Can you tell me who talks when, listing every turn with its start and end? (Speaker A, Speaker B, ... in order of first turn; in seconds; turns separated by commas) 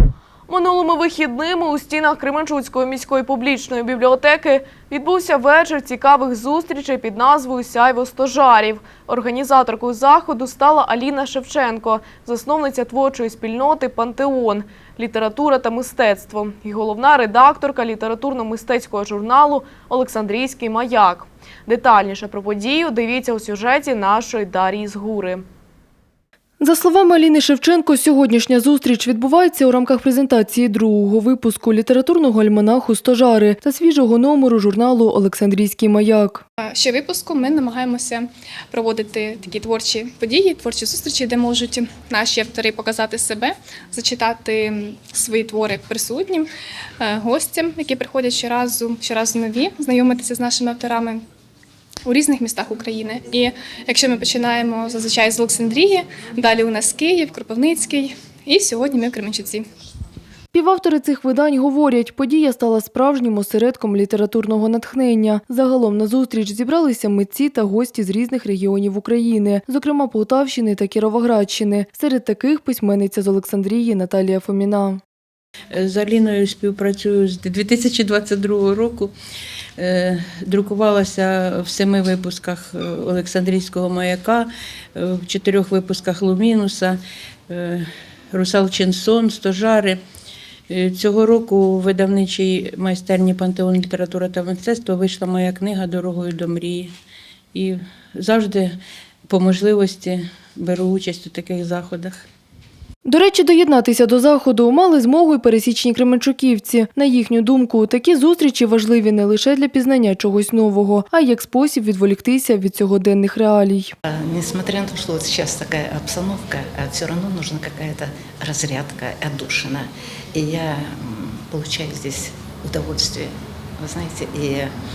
Speaker A: 0.5-25.4, Speaker B: 26.6-36.4, Speaker C: 36.6-46.5, Speaker C: 47.0-51.2, Speaker C: 52.1-59.7, Speaker B: 60.5-75.0, Speaker D: 75.7-79.1, Speaker D: 79.8-90.0, Speaker D: 90.7-96.9, Speaker D: 97.5-102.2, Speaker B: 103.0-113.9, Speaker E: 114.0-124.7